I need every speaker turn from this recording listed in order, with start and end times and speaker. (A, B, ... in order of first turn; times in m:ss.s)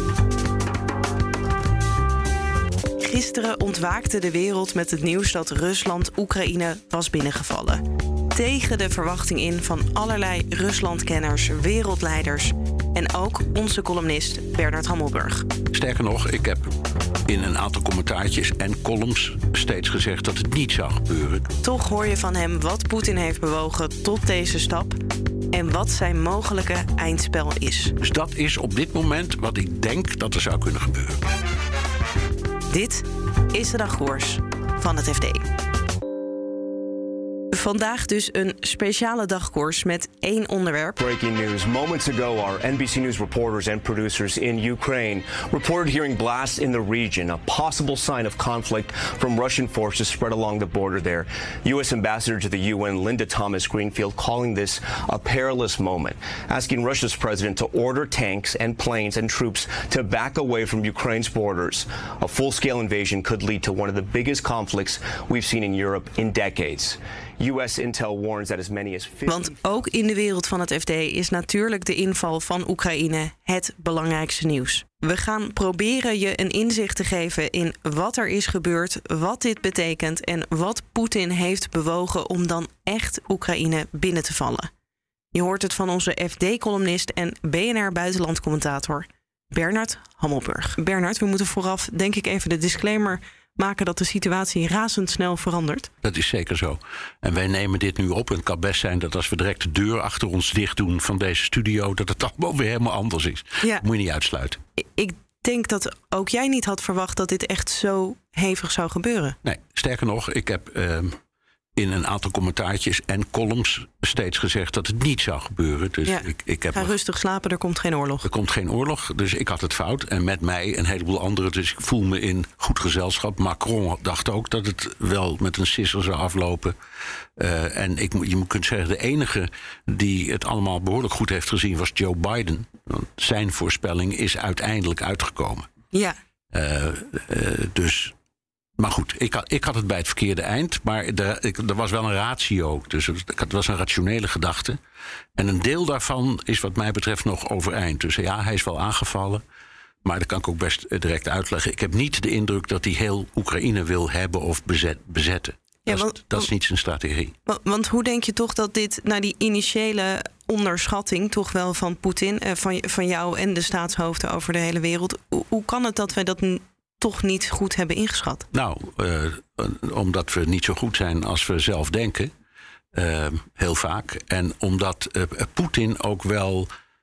0:03.0-0:07.8 A
0:08.3-0:15.4 A
0:15.7-0:16.7 B
0:17.3-0:21.5 B
0:21.6-0:25.0 A
0:25.5-0:28.0 A
0:28.0-0:31.2 B
0:32.7-0:35.4 A
0:37.5-0:41.0 A
0:41.0-1:09.5 C
1:09.3-1:24.7 A
1:25.3-1:35.9 A
1:36.0-1:44.6 B
1:44.8-1:49.4 A
1:49.4-1:51.1 B
1:51.8-1:56.9 B
1:56.0-1:58.3 A
1:58.2-2:06.7 B
2:07.4-2:15.7 B
2:15.9-2:16.2 A
2:16.5-2:18.1 B
2:18.8-2:24.8 B
2:25.4-2:29.4 B
2:30.0-2:37.3 B
2:35.9-2:36.5 A
2:37.4-2:48.5 A
2:48.5-2:52.3 B
2:52.9-2:56.7 B